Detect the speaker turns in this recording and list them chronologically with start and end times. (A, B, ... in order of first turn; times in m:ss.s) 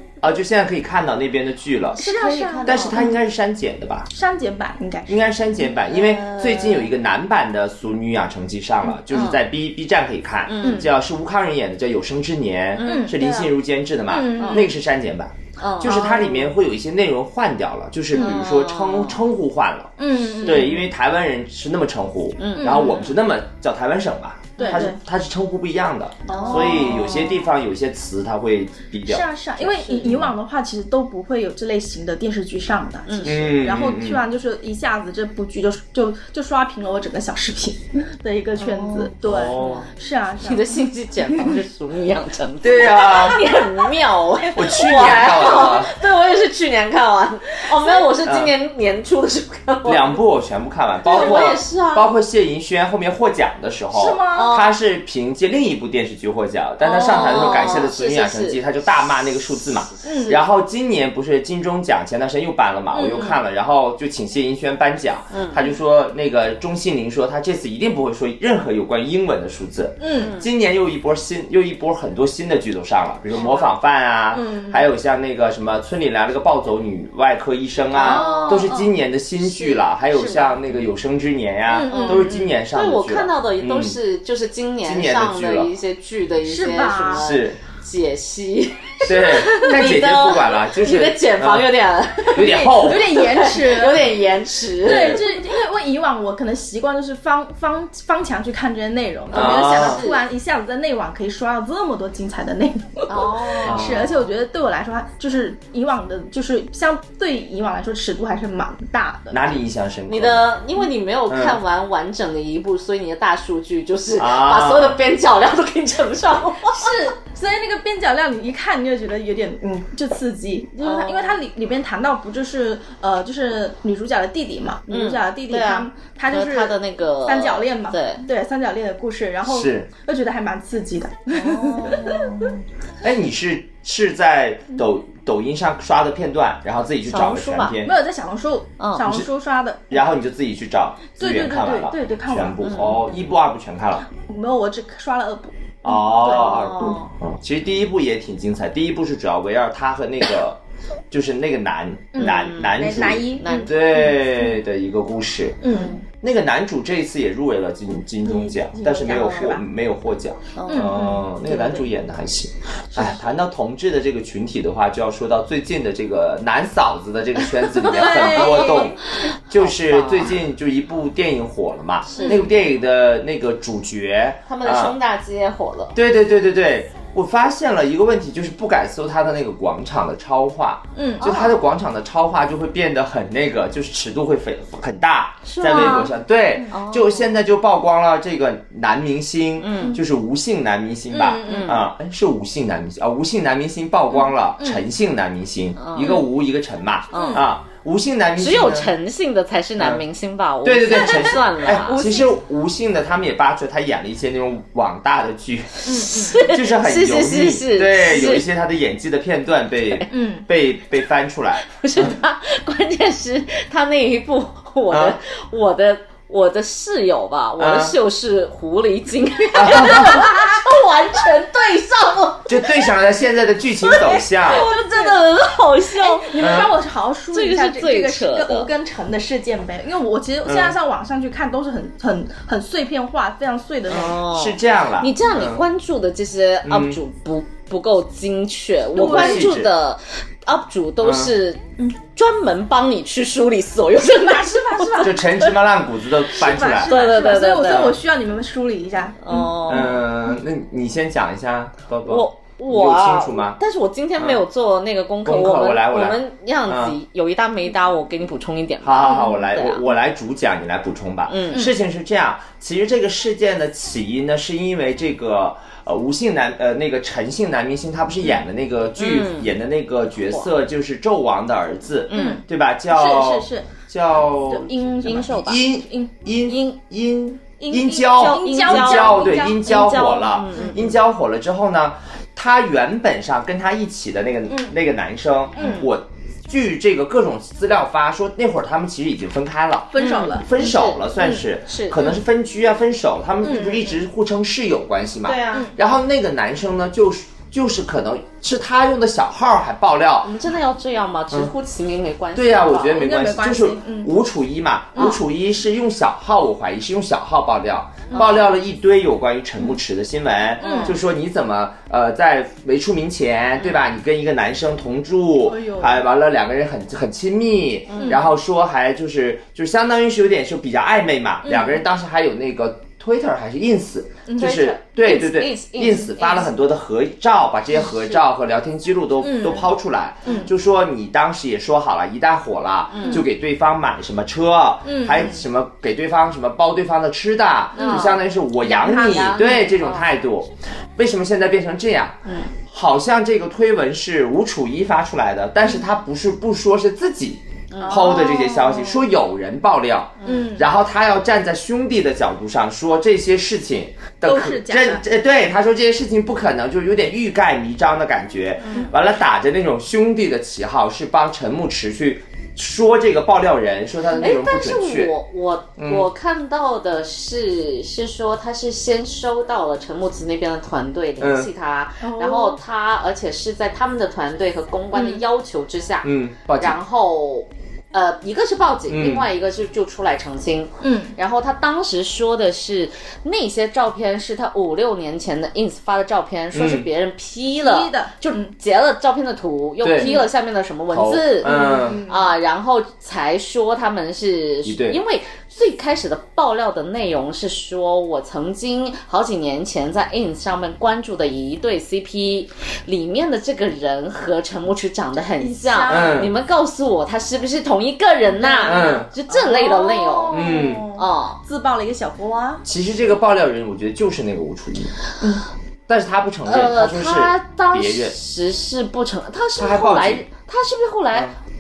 0:00.2-0:02.0 A
0:01.9-0:03.1 B
0:02.0-0:03.1 C
0:02.6-0:04.1 A
0:04.1-0:05.3 C
0:05.1-0:29.3 A
0:05.9-0:06.9 B
0:09.1-0:09.4 B
0:10.5-0:10.9 B
0:10.6-0:10.9 C
0:12.8-0:13.2 B
0:12.8-0:13.5 C
0:14.1-0:14.7 C
0:14.1-0:14.7 B
0:15.6-0:16.3 B
0:15.8-0:16.4 C
0:18.2-0:19.2 B
0:20.0-0:20.8 C
0:20.4-0:20.8 B
0:22.4-0:23.2 B
0:22.6-0:23.0 C
0:24.6-0:24.9 B
0:24.6-0:25.0 C
0:26.3-0:27.3 C
0:26.3-0:27.4 B
0:29.1-0:41.6 C
0:29.6-0:30.2 B
0:30.0-0:30.3 A
0:33.1-0:33.4 B
0:33.2-0:34.2 A
0:38.6-0:39.8 B
0:39.2-0:39.9 A
0:40.4-0:50.2 B
0:42.6-0:43.5 A
0:44.5-0:46.0 A
0:48.2-0:48.5 A
0:49.8-1:24.0 A
0:51.0-0:52.1 B
0:53.9-0:54.6 C
0:54.3-0:54.8 B
0:56.8-0:58.6 B
1:00.0-1:00.4 C
1:02.9-1:03.3 C
1:03.1-1:03.4 B
1:05.3-1:05.6 B
1:10.0-1:10.4 C
1:10.1-1:10.5 B
1:13.4-1:13.7 C
1:14.3-1:14.9 C
1:17.9-1:19.0 C
1:18.0-1:18.8 B
1:20.1-1:20.6 B
1:21.7-1:22.6 C
1:21.9-1:35.4 B
1:24.8-1:25.7 A
1:26.4-1:27.4 C
1:27.1-1:27.6 A
1:29.0-1:31.7 A
1:29.4-1:29.8 C
1:32.3-1:33.3 A
1:32.4-1:34.1 C
1:34.8-1:49.6 C
1:34.9-1:35.2 A
1:39.3-1:40.0 A
1:39.3-1:40.2 B
1:43.1-1:44.2 B
1:43.6-1:44.1 A
1:49.3-1:50.5 A
1:50.1-1:57.1 B
1:51.3-1:51.6 A
1:54.2-1:55.0 A
1:56.7-2:12.6 C
2:00.8-2:01.4 B
2:04.9-2:08.2 B
2:09.4-2:09.9 A
2:11.3-2:12.6 B
2:13.0-2:18.0 A
2:17.1-2:17.8 B
2:17.8-2:20.1 C
2:18.8-2:19.1 B
2:19.9-2:24.1 A
2:21.2-2:22.8 C
2:22.6-2:23.1 B
2:24.1-2:27.1 C
2:25.8-2:30.6 A
2:26.2-2:27.1 B
2:31.1-2:35.6 A
2:32.1-2:34.5 C
2:32.2-2:33.8 B
2:35.6-2:36.0 C
2:35.7-2:36.0 B
2:36.1-2:49.0 A
2:38.2-2:39.6 C
2:40.6-2:41.0 B
2:40.7-2:41.9 C
2:43.0-2:43.2 C
2:47.6-2:50.4 B
2:47.9-2:49.0 C
2:49.5-2:55.0 A
2:52.1-2:52.4 B
2:52.2-2:52.5 C
2:54.5-2:56.0 B
2:55.9-3:18.9 A
3:01.0-3:01.6 C
3:05.4-3:06.1 B
3:06.7-3:07.3 B
3:09.6-3:10.0 B
3:11.1-3:11.9 C
3:11.4-3:11.8 B
3:14.6-3:14.9 C
3:15.8-3:16.3 B
3:17.1-3:17.4 B
3:17.1-3:17.4 C
3:18.4-3:22.0 B
3:20.6-3:32.2 A
3:20.9-3:22.2 C
3:25.8-3:26.5 C
3:25.9-3:28.5 B
3:30.1-3:30.5 C
3:31.7-3:42.9 B
3:34.9-3:35.2 A
3:37.6-3:38.0 A
3:39.5-3:40.2 A
3:39.9-3:40.6 C
3:42.5-3:44.6 A
3:43.8-3:46.6 B
3:44.4-3:45.2 C
3:46.0-3:54.2 C
3:46.4-3:46.7 A
3:47.3-3:48.7 B
3:50.4-3:50.8 A
3:53.9-4:05.1 B
3:54.2-3:55.6 A
3:56.6-3:57.0 A
3:59.0-3:59.7 A
3:59.0-3:59.5 C
4:01.0-4:01.3 A
4:04.0-4:05.4 C
4:05.0-4:07.0 A
4:06.3-4:10.0 C
4:06.8-4:08.0 B
4:09.2-4:10.0 B
4:09.7-4:13.6 A
4:12.0-4:19.8 B
4:14.2-4:14.4 A
4:15.2-4:17.0 A
4:18.8-4:34.7 A
4:19.0-4:19.4 C
4:21.3-4:21.7 B
4:29.0-4:29.5 B
4:32.1-4:32.4 B
4:32.1-4:36.2 C
4:35.0-4:35.6 B
4:35.3-5:00.3 A
4:36.5-4:36.8 B
4:37.6-4:40.8 C
4:37.9-4:41.0 B
4:44.5-4:44.8 C
4:45.6-4:45.9 C
4:45.6-4:45.8 B
4:49.9-4:50.5 C
4:50.0-4:52.1 B
4:51.2-4:51.5 C
4:53.4-4:54.0 C
4:55.2-4:55.7 B
5:00.2-5:03.1 B
5:02.3-6:05.1 A
5:03.0-5:04.1 C
5:05.0-5:05.2 C
5:08.1-5:08.4 C
5:08.1-5:08.5 B
5:10.6-5:11.0 B
5:10.6-5:11.0 C
5:15.4-5:16.0 C
5:17.9-5:18.2 B
5:18.0-5:18.3 C
5:21.4-5:21.8 C
5:24.3-5:24.7 C
5:24.4-5:26.5 B
5:29.2-5:29.7 C
5:30.2-5:30.5 C
5:32.9-5:33.3 B
5:34.8-5:35.4 C
5:37.8-5:40.1 B
5:37.8-5:38.2 C
5:38.9-5:39.7 C
5:42.3-5:42.5 B
5:47.7-5:48.1 B
5:47.8-5:49.1 C
5:50.2-5:50.7 C
5:54.2-5:55.0 C
5:58.6-5:58.9 B
6:04.2-6:51.4 B
6:05.8-6:06.1 A
6:11.2-6:11.5 A
6:12.0-6:12.6 C
6:14.9-6:15.2 C
6:16.0-6:16.8 A
6:18.9-6:19.3 A
6:20.8-6:21.2 C
6:26.5-6:26.9 A
6:27.6-6:28.6 C
6:29.8-6:30.2 A
6:30.0-6:30.2 C
6:30.9-6:32.0 A
6:31.4-6:32.3 C
6:34.6-6:35.0 A
6:45.4-6:46.3 C
6:45.9-6:46.3 A
6:48.4-6:52.6 C
6:48.6-6:49.1 A
6:50.3-6:50.9 A
6:52.6-6:54.9 A
6:55.9-6:58.2 A
6:56.5-7:01.4 B
6:59.6-7:00.3 A